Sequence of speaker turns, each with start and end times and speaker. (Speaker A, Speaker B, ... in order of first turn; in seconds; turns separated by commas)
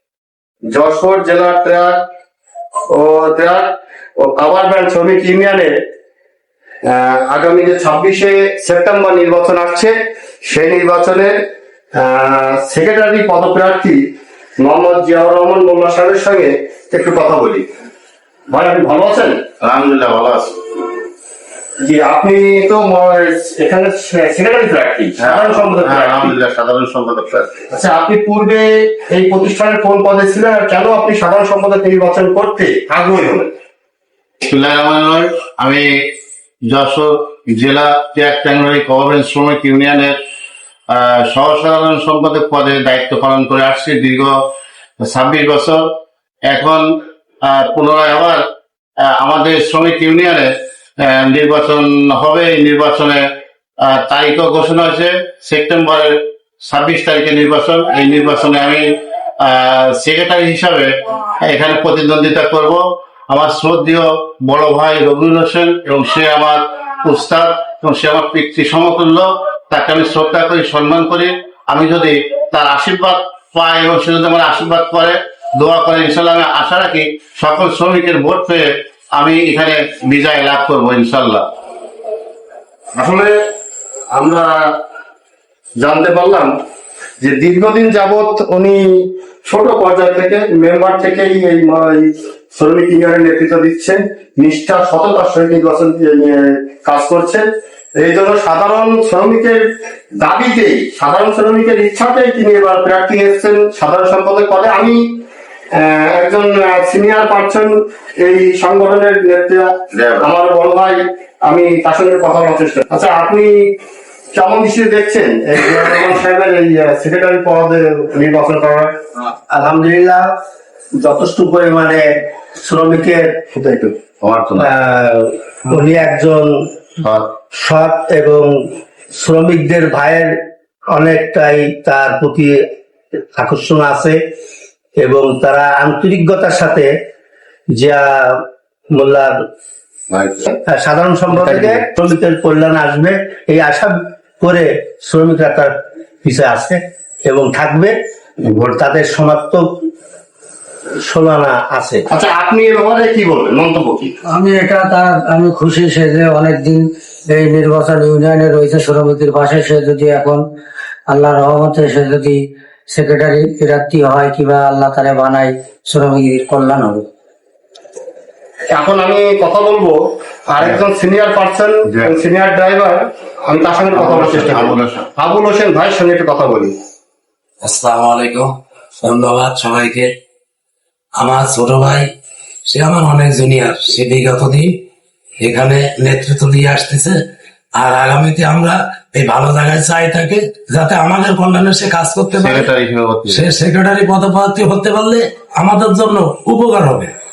Speaker A: 0.7-2.0, Speaker A: 2.9-5.7, Speaker A: 6.8-11.3, Speaker A: 12.0-14.0, Speaker A: 14.6-17.7, Speaker A: 18.5-19.4, Speaker B: 19.6-20.5, Speaker A: 21.8-26.3, Speaker B: 25.2-27.6, Speaker A: 27.7-33.5, Speaker B: 34.5-35.9, Speaker B: 36.7-40.1, Speaker B: 40.9-44.4, Speaker B: 45.0-45.9, Speaker B: 46.5-46.9, Speaker B: 47.4-48.4, Speaker B: 49.1-50.5, Speaker B: 51.0-53.2, Speaker B: 53.9-58.9, Speaker B: 59.4-81.5, Speaker A: 82.9-83.3, Speaker A: 84.1-84.5, Speaker A: 85.8-86.5, Speaker A: 87.2-97.4, Speaker A: 98.0-99.6, Speaker A: 100.2-105.0, Speaker A: 105.7-109.7, Speaker B: 109.9-110.3, Speaker A: 110.2-113.5, Speaker A: 114.3-118.9, Speaker C: 119.5-120.2, Speaker C: 121.0-122.1, Speaker C: 122.6-123.2, Speaker A: 123.5-123.9, Speaker B: 124.2-124.7, Speaker C: 124.6-126.5, Speaker C: 127.5-128.5, Speaker C: 129.2-130.3, Speaker C: 130.9-132.5, Speaker C: 133.4-134.2, Speaker C: 135.0-136.9, Speaker C: 137.8-138.4, Speaker C: 138.9-139.3, Speaker C: 140.7-145.7, Speaker A: 141.4-141.8, Speaker C: 146.2-149.6, Speaker C: 151.1-152.1, Speaker A: 152.1-154.1, Speaker D: 154.3-160.4, Speaker D: 161.1-162.4, Speaker D: 162.9-167.1, Speaker A: 168.7-176.7, Speaker B: 170.6-170.8, Speaker B: 171.9-172.2, Speaker B: 173.9-175.1, Speaker E: 177.6-180.1, Speaker E: 181.2-182.1, Speaker E: 182.7-184.7, Speaker E: 185.4-187.2, Speaker E: 187.7-192.7, Speaker B: 192.3-193.5, Speaker E: 193.3-197.1